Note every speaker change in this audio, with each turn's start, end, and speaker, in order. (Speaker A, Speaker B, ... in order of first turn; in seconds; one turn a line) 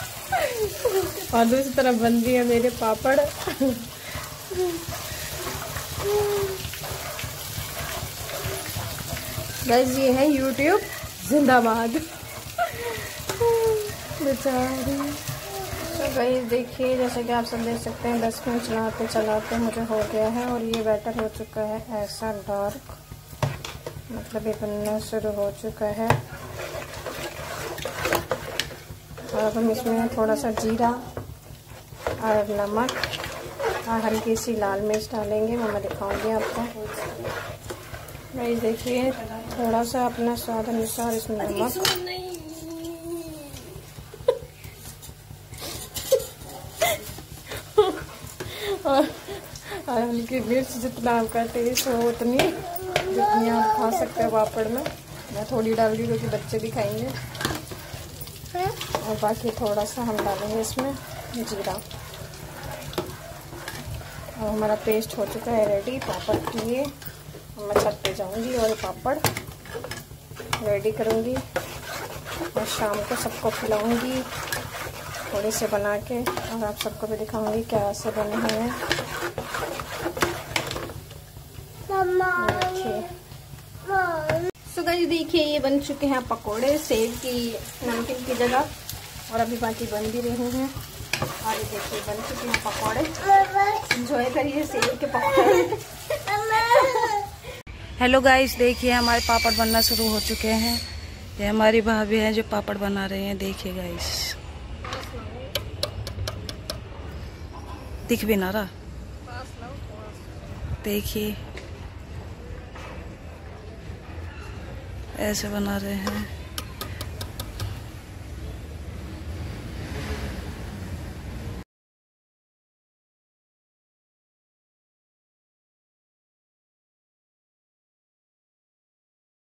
Speaker A: 0.3-3.9
Speaker A: 4.5-4.8
Speaker A: 9.6-12.0
Speaker A: 13.5-15.2
Speaker A: 15.8-23.0
Speaker A: 24.1-26.2
Speaker A: 29.3-31.0
Speaker A: 32.2-33.0
Speaker A: 33.9-36.7
Speaker A: 38.3-41.9
Speaker A: 48.4-57.1
Speaker A: 59.0-61.8
Speaker A: 64.4-66.9
Speaker A: 67.5-69.2
Speaker A: 70.6-71.4
Speaker A: 72.5-74.2
Speaker A: 75.3-78.8
Speaker A: 82.3-83.1
Speaker A: 84.7-88.7
Speaker A: 89.3-90.7
Speaker A: 91.4-95.8
Speaker B: 98.0-100.8
Speaker B: 101.4-104.3
Speaker A: 104.9-105.5
Speaker B: 108.1-108.7
Speaker A: 109.3-110.1
Speaker B: 110.8-111.3
Speaker B: 115.2-116.3